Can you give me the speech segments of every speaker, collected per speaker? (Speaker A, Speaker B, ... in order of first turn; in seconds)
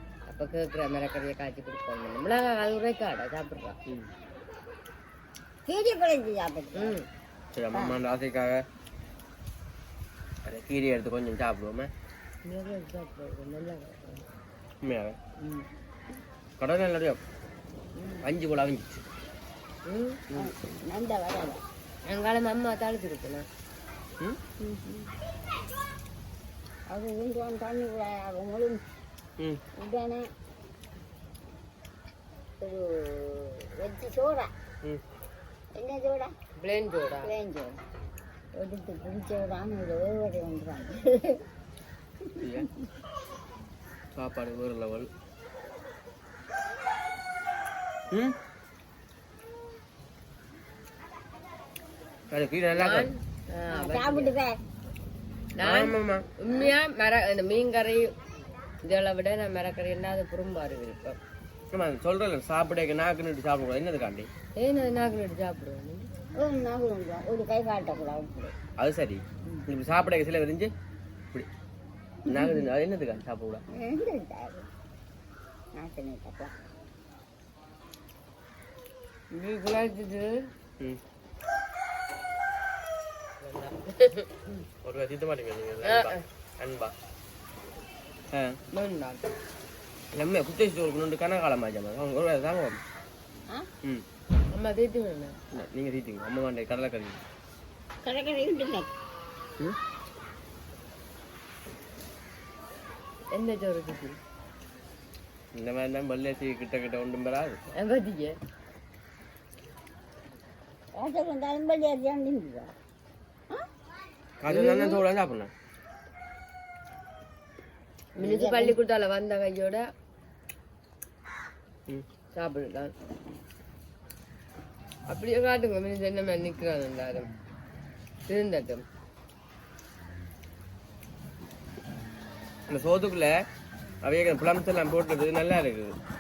Speaker A: 0.3-3.8, 6.8-7.0, 12.4-14.2, 19.9-20.2, 22.1-23.4, 36.6-37.3, 52.7-54.4, 55.6-58.1, 58.8-61.2, 64.6-66.1, 79.3-80.5, 83.4-84.3, 85.8-86.2, 88.7-89.2, 94.5-95.4, 103.3-104.2, 107.7-108.3, 114.5-115.0, 118.2-119.9, 122.3-122.9, 125.1-127.3, 128.3-128.8
Speaker B: 5.7-7.0, 7.7-8.0, 18.0-18.2, 20.3-21.6, 24.6-25.1, 26.9-28.8, 29.8-30.3, 32.6-34.5, 35.8-36.3, 37.2-37.8, 38.5-41.4, 53.7-54.6, 56.5-56.7, 66.4-68.5, 72.3-72.6, 73.7-74.6, 75.8-76.5, 98.0-98.9, 111.0-112.7, 118.2-118.8
Speaker C: 7.5-8.6, 10.4-11.9, 14.8-15.2, 16.6-17.2, 18.2-19.1, 42.4-42.7, 44.1-45.1, 48.1-48.4, 52.3-53.1, 55.6-56.3, 61.7-64.3, 68.8-70.7, 72.2-73.6, 84.8-86.9, 90.1-92.8, 95.5-97.2, 105.5-107.6, 114.4-115.5, 132.7-133.4, 134.0-135.9